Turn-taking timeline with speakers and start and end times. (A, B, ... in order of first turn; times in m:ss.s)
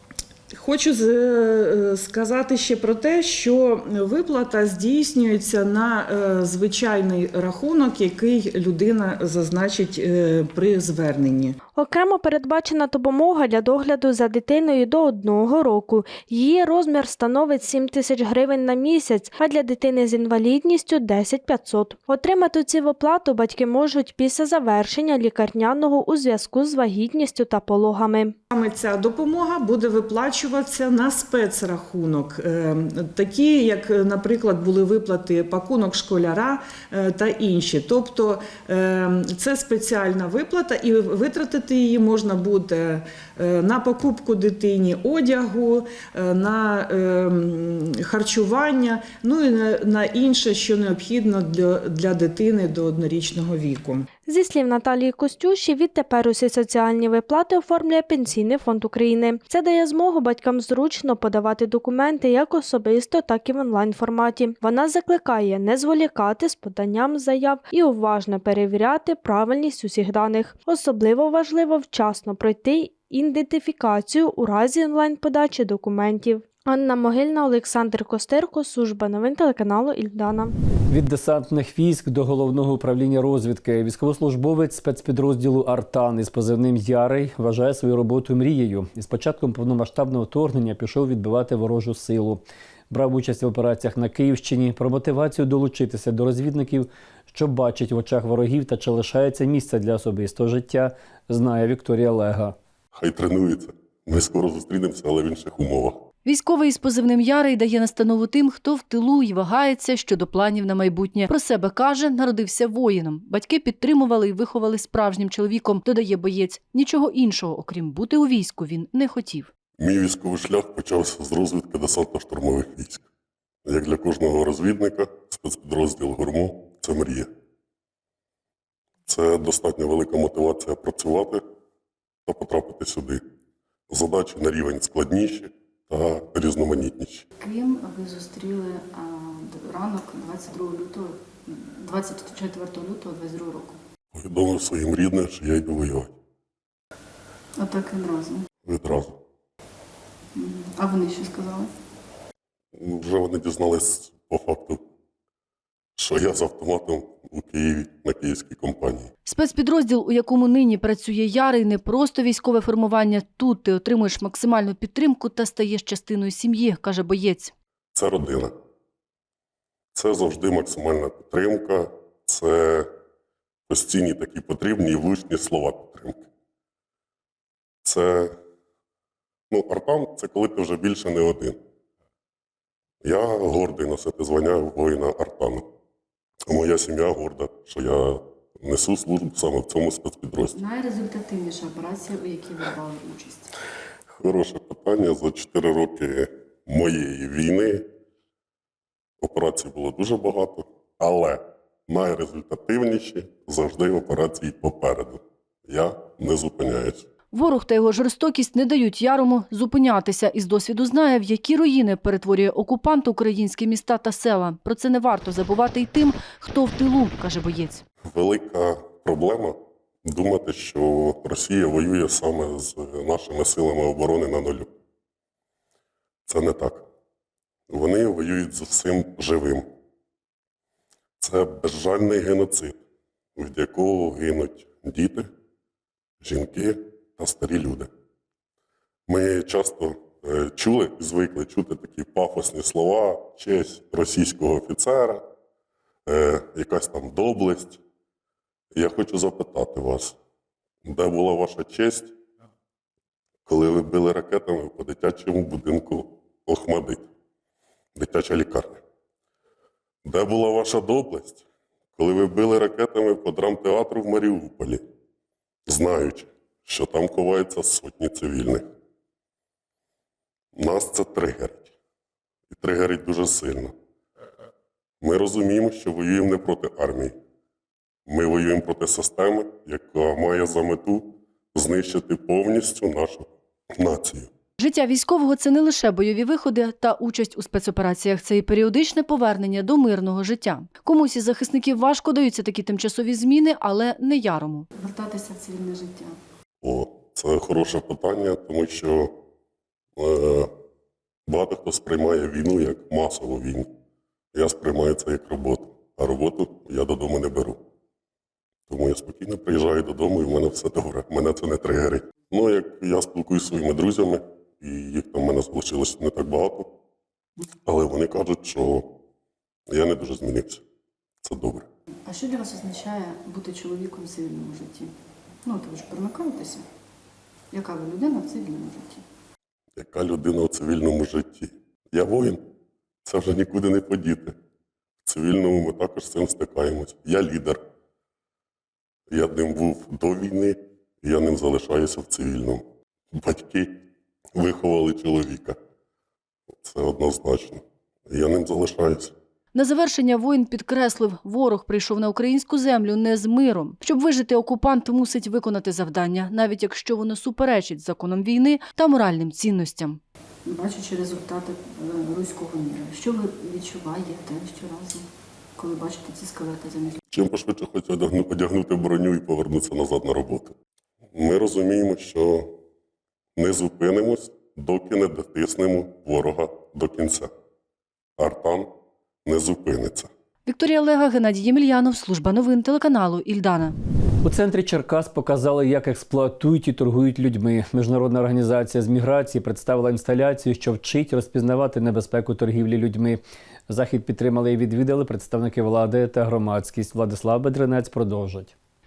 0:00.5-0:11.6 A
0:11.8-0:28.4 B
0:28.5-0:54.1 A
0:54.3-1:20.6 B
1:20.9-1:42.6 C
1:42.9-1:46.0 D
1:46.2-1:59.5 E
1:59.8-2:03.0 D
2:03.6-2:07.3 D
2:09.1-2:11.4 D
2:12.3-2:13.2 D
2:13.9-2:17.2 D
2:17.4-2:23.8 F
2:24.1-2:26.1 D
2:27.6-2:28.4 F
2:28.7-2:29.2 D
2:30.4-2:31.7 F
2:32.8-2:34.8 D
2:36.0-2:39.1 D
2:39.2-2:47.5 E
2:47.9-2:48.5 D
2:49.9-2:52.9 D
2:53.7-2:56.2 D
2:57.8-2:58.4 D
2:59.5-3:01.6 D
3:03.0-3:05.6 D
3:06.5-3:10.6 D
3:10.5-3:13.5 F
3:14.1-3:17.8 D
3:19.2-3:27.0 D
3:27.3-3:37.8 E
3:38.0-3:44.7 D
3:46.3-3:46.8 D
3:47.7-3:49.7 D
3:51.2-3:52.8 D
3:53.4-3:55.3 D
3:56.2-3:57.9 D
3:59.1-4:05.2 D
4:06.1-4:07.8 D
4:08.8-4:10.2 D
4:10.8-4:12.1 D
4:13.5-4:17.1 D
4:18.0-4:18.8 D
4:20.0-4:21.4 D
4:22.0-4:24.8 D
4:25.7-4:28.6 D
4:30.6-4:31.7 D
4:32.5-4:33.7 D
4:35.0-4:37.2 D
4:38.1-4:44.3 D
4:44.6-4:54.7 E
4:54.7-4:56.2 F
4:56.6-4:59.1 D
5:00.0-5:00.5 D
5:01.3-5:03.7 D
5:04.3-5:07.6 D
5:08.7-5:16.7 D
5:17.6-5:18.9 D
5:19.7-5:20.6 D
5:21.2-5:21.7 D
5:22.1-5:24.9 F
5:25.4-5:26.7 F
5:27.5-5:29.0 F
5:29.8-5:32.4 D
5:33.0-5:34.4 D
5:35.0-5:37.6 D
5:39.1-5:43.8 D
5:44.4-5:45.6 D
5:46.6-5:49.1 D
5:49.5-6:00.0 E
6:00.5-6:05.1 F
6:05.6-6:07.0 F
6:07.1-6:10.5 D
6:11.1-6:12.5 D
6:13.4-6:17.3 D
6:18.2-6:18.7 D
6:19.3-6:20.1 D
6:20.5-6:23.8 E
6:24.2-6:38.5 C